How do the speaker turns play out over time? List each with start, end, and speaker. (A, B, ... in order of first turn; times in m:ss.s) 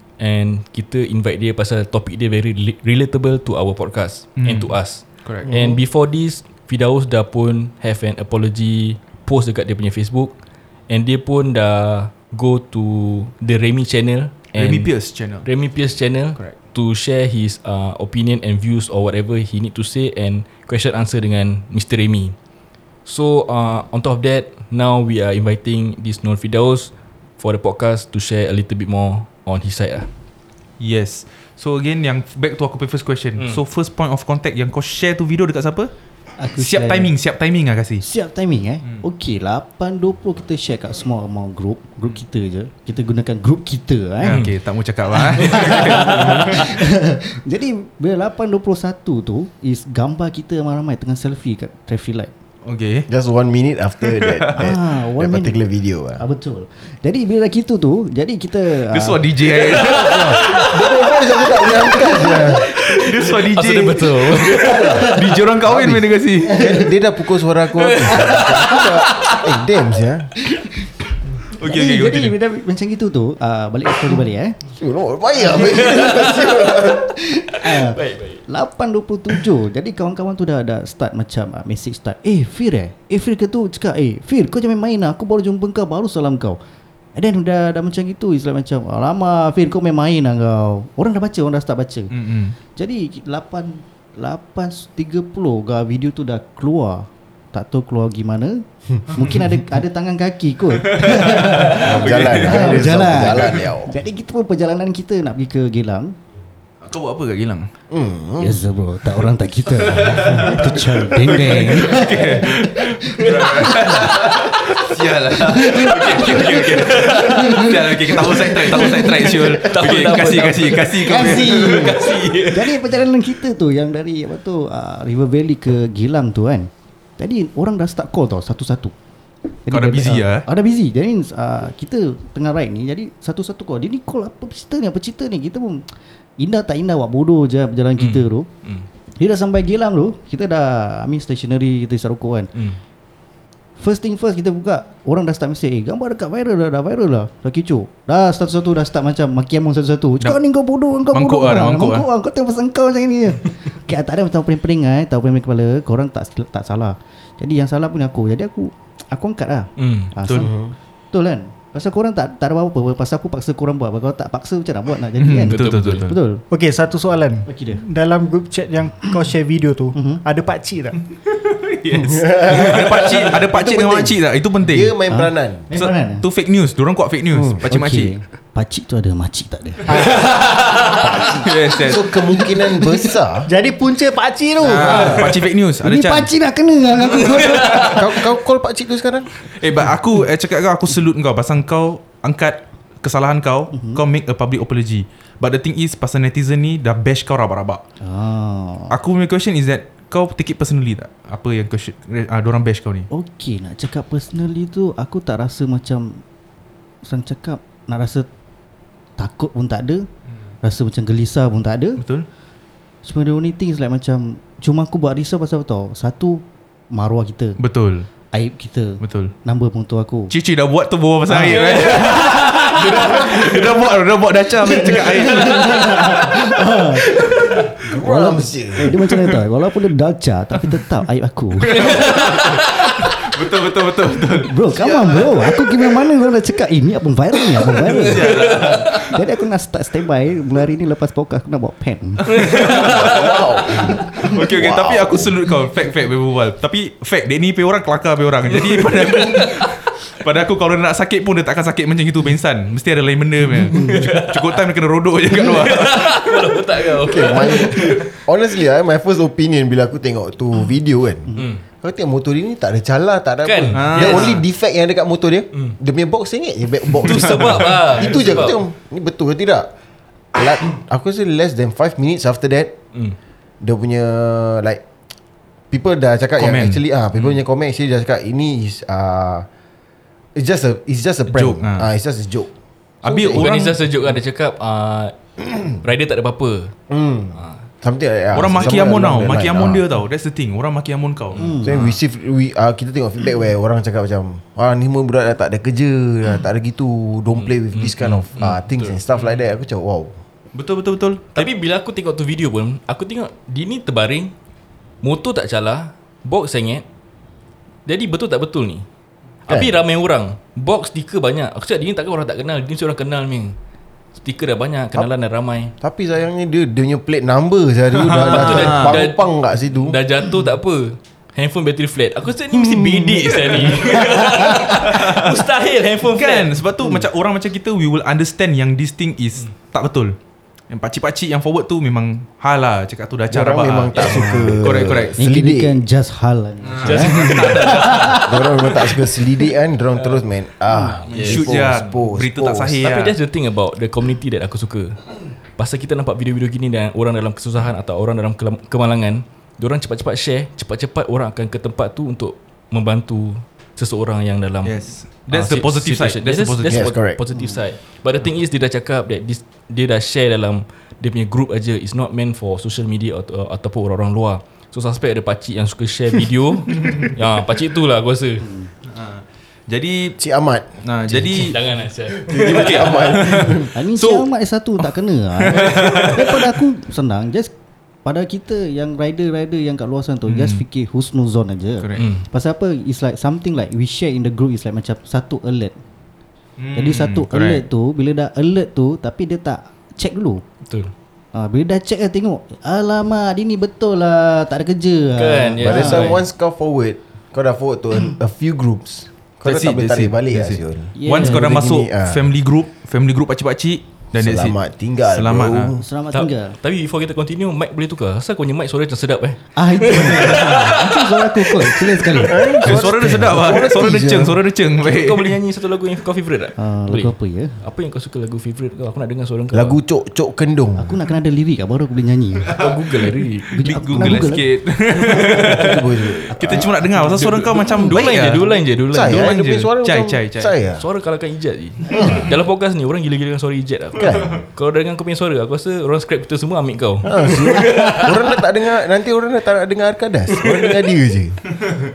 0:00.2-0:10.3 A
0:04.4-0:04.7 B
0:05.2-0:05.5 B
0:10.9-0:14.9 A
0:14.5-0:15.4 B
0:15.4-0:22.3 A
0:23.0-0:30.1 A
0:30.8-0:35.9 B
0:36.4-0:37.1 C
0:36.6-0:38.0 B
0:38.0-0:44.4 C
0:44.2-0:46.7 B
0:44.3-0:44.5 A
0:45.2-0:52.3 C
0:45.4-0:45.7 A
0:52.6-0:53.1 B
0:53.1-0:56.2 D
0:54.1-0:54.7 B
0:54.5-0:55.6 C
0:56.2-0:59.3 C
0:58.9-1:00.6 B
1:00.0-1:02.6 D
1:00.1-1:00.6 A
1:02.0-1:05.1 A
1:02.8-1:06.6 B
1:04.6-1:05.0 D
1:04.7-1:05.4 C
1:05.6-1:10.3 D
1:06.4-1:06.8 C
1:07.8-1:09.4 A
1:11.5-1:12.4 B
1:11.6-1:14.6 C
1:14.8-1:17.1 D
1:15.4-1:15.7 C
1:15.5-1:16.9 A
1:17.1-1:26.6 C
1:17.5-1:18.4 A
1:27.1-1:32.1 C
1:32.1-1:32.6 B
1:32.8-1:46.1 C
1:40.8-1:43.6 B
1:41.6-1:43.9 D
1:46.8-1:47.7 B
1:47.9-1:48.6 D
1:48.4-1:54.1 C
1:49.9-2:02.4 B
1:53.2-1:54.6 A
1:55.4-1:59.4 C
1:55.8-2:02.7 A
2:01.0-2:08.9 C
2:09.6-2:15.9 C
2:09.7-2:10.5 B
2:16.4-2:18.5 C
2:18.0-2:18.8 A
2:19.2-2:22.5 C
2:23.8-2:46.4 C
2:31.1-2:32.1 B
2:39.8-2:40.1 A
2:40.2-2:40.5 B
2:40.4-2:40.7 D
2:45.2-2:46.2 B
2:45.5-2:46.1 A
2:46.5-2:51.0 E
2:47.5-2:47.8 C
2:49.9-2:50.2 C
2:51.4-2:55.0 B
2:51.9-2:55.7 D
2:55.1-2:56.2 C
2:55.7-2:58.1 B
2:57.3-2:57.6 D
2:57.7-3:00.3 C
2:59.9-3:00.2 E
3:00.9-3:03.5 D
3:01.4-3:02.2 B
3:03.5-3:05.2 E
3:04.6-3:06.3 B
3:04.7-3:05.3 C
3:04.8-3:05.2 D
3:05.8-3:08.2 C
3:07.6-3:07.9 B
3:07.8-3:09.3 D
3:09.5-3:17.8 B
3:13.7-3:14.0 C
3:18.0-3:18.9 C
3:18.9-3:23.1 B
3:23.1-3:26.2 C
3:27.0-3:28.3 C
3:29.2-3:30.1 C
3:30.6-3:32.0 C
3:32.0-3:32.2 B
3:33.0-3:37.6 C
3:37.6-3:38.1 B
3:38.3-3:40.3 C
3:39.0-3:39.3 B
3:40.3-3:46.4 B
3:41.3-3:42.2 C
3:41.6-3:43.7 A
3:44.6-3:47.2 C
3:47.7-3:48.9 D
3:47.9-3:52.1 C
3:51.6-3:55.6 B
3:51.8-3:52.5 A
3:54.4-4:02.4 C
3:57.9-3:59.2 B
3:58.2-3:58.8 A
4:02.4-4:03.3 B
4:02.4-4:03.0 A
4:02.6-4:05.3 D
4:04.1-4:16.4 B
4:08.7-4:09.7 A
4:13.7-4:14.6 A
4:15.3-4:18.1 A
4:17.0-4:29.7 D
4:21.4-4:21.6 A
4:23.4-4:24.4 A
4:23.7-4:24.4 B
4:27.0-4:28.6 A
4:27.2-4:27.8 B
4:30.3-4:32.7 D
4:33.6-4:34.8 D
4:35.7-4:39.4 D
4:36.4-4:36.8 B
4:40.4-4:42.5 D
4:41.3-4:41.9 B
4:43.0-4:43.5 D
4:43.0-4:43.8 B
4:43.3-4:45.1 A
4:45.8-4:46.7 A
4:46.9-4:49.8 D
4:47.3-4:47.6 A
4:48.3-4:51.5 B
4:51.4-4:51.8 C
4:51.4-4:51.9 A
4:51.6-5:00.2 D
4:57.4-4:59.0 A
5:00.5-5:01.5 B
5:01.3-5:04.3 A
5:05.0-5:06.8 A
5:07.8-5:08.8 A
5:09.5-5:13.6 A
5:14.2-5:15.8 A
5:15.8-5:20.0 D
5:18.0-5:19.0 B
5:18.1-5:19.3 A
5:19.8-5:26.6 A
5:22.5-5:23.6 D
5:24.7-5:25.4 B
5:26.1-5:30.2 B
5:30.7-5:35.2 B
5:33.3-5:35.8 D
5:33.9-5:34.3 A
5:35.2-5:38.3 C
5:36.6-5:38.2 B
5:36.8-5:38.2 A
5:38.2-5:42.8 D
5:40.7-5:41.0 C
5:41.1-5:41.9 A
5:41.1-5:43.1 B
5:42.8-5:45.0 A
5:45.6-6:08.5 A
5:54.6-5:56.9 B
5:56.7-5:57.2 D
5:57.3-5:57.6 C
6:08.4-6:08.7 C
6:08.8-6:10.2 B
6:10.2-6:11.6 D
6:10.8-6:11.6 B
6:11.3-6:13.3 A
6:12.1-6:13.7 D
6:12.4-6:14.3 B
6:13.7-6:17.5 C
6:15.4-6:16.5 B
6:18.0-6:25.8 C
6:20.3-6:20.6 B
6:21.8-6:22.0 B
6:22.0-6:22.2 A
6:26.6-6:27.6 B
6:26.7-6:30.4 C
6:30.6-6:30.9 A
6:31.3-6:36.2 C
6:35.1-6:36.2 A
6:35.6-6:42.2 D
6:39.4-6:45.7 B
6:40.9-6:41.8 C
6:44.1-6:45.8 D
6:45.7-6:46.6 C
6:46.1-6:51.9 A
6:49.5-6:53.4 C
6:52.2-6:54.4 D
6:52.6-6:55.3 B
6:54.8-6:59.8 A
6:56.6-6:57.6 C
6:59.5-7:01.0 D
7:00.8-7:02.7 C
7:02.6-7:04.1 A
7:03.5-7:04.5 C
7:03.6-7:08.4 B
7:05.1-7:06.7 D
7:06.4-7:06.8 C
7:07.0-7:09.3 A
7:07.6-7:08.0 C
7:08.9-7:10.8 D
7:09.0-7:10.5 B
7:10.8-7:18.1 A
7:11.9-7:12.3 D
7:14.0-7:14.4 D
7:17.0-7:21.4 D